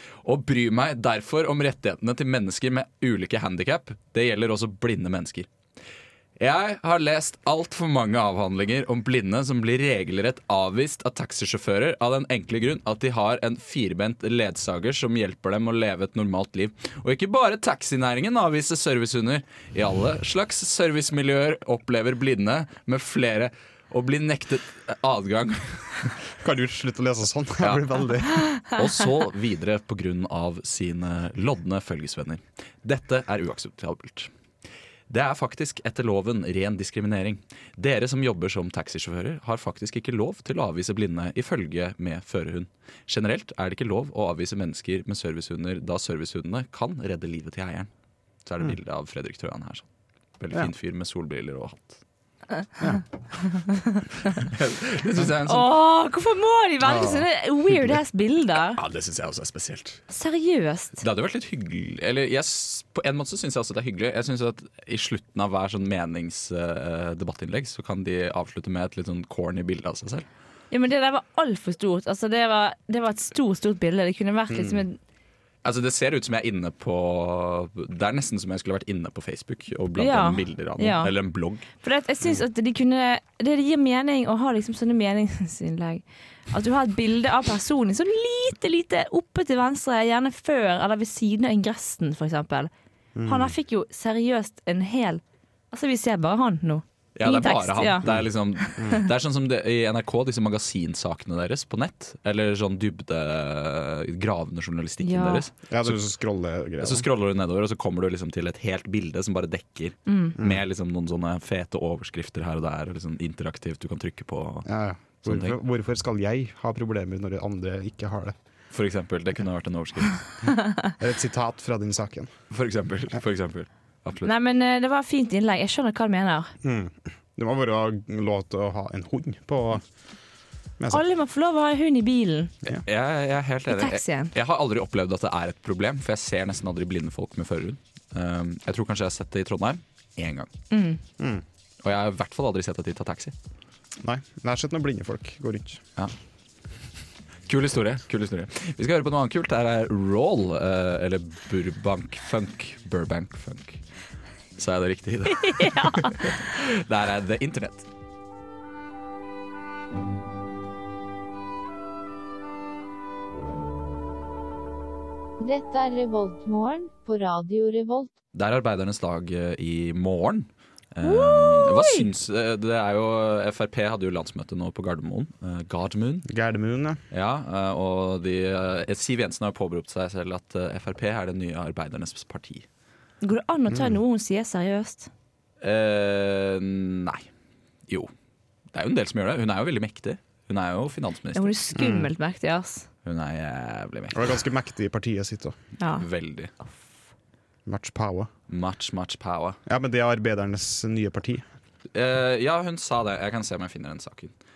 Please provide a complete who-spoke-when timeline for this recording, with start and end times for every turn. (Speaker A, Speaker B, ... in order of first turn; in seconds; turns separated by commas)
Speaker A: 0.2-5.5, Speaker A: 6.4-26.2, Speaker B: 26.4-28.4, Speaker A: 27.6-28.1, Speaker A: 28.6-34.3, Speaker A: 35.1-47.9, Speaker A: 48.4-49.9, Speaker A: 50.4-52.0, Speaker A: 54.3-55.7, Speaker C: 55.5-58.8, Speaker B: 56.8-57.2, Speaker A: 58.8-60.0, Speaker C: 60.1-61.0, Speaker A: 61.0-70.2, Speaker C: 70.7-75.0, Speaker B: 74.5-74.8, Speaker A: 75.6-81.7, Speaker C: 79.9-81.1, Speaker C: 81.8-92.7, Speaker B: 93.2-93.5, Speaker C: 93.2-98.0, Speaker A: 97.2-106.0, Speaker C: 98.6-99.0, Speaker C: 105.0-105.4, Speaker B: 105.7-107.1, Speaker A: 106.8-114.7, Speaker C: 110.1-110.3, Speaker B: 110.4-110.6, Speaker B: 114.6-118.3, Speaker A: 115.2-115.5, Speaker A: 118.7-120.2, Speaker B: 121.0-122.3, Speaker A: 122.5-124.3, Speaker C: 124.2-126.5, Speaker B: 126.6-129.8, Speaker C: 130.9-132.5, Speaker A: 132.7-140.5, Speaker C: 133.7-134.3, Speaker C: 140.7-141.0, Speaker B: 141.2-141.4, Speaker A: 141.8-143.3, Speaker B: 144.0-145.8, Speaker A: 147.5-153.8, Speaker A: 154.6-157.9, Speaker C: 155.4-156.3, Speaker D: 165.4-168.1, Speaker A: 168.3-176.3, Speaker C: 171.0-172.1, Speaker B: 176.3-177.0, Speaker A: 177.1-182.7, Speaker C: 183.2-185.1, Speaker B: 183.7-184.0, Speaker A: 185.6-187.3, Speaker A: 188.7-191.5, Speaker C: 191.3-192.9, Speaker B: 191.7-192.1, Speaker A: 193.0-194.4, Speaker B: 194.1-195.6, Speaker C: 195.8-196.0, Speaker A: 196.0-196.5, Speaker B: 197.7-198.3, Speaker A: 198.5-199.6, Speaker B: 199.7-201.4, Speaker A: 201.9-204.3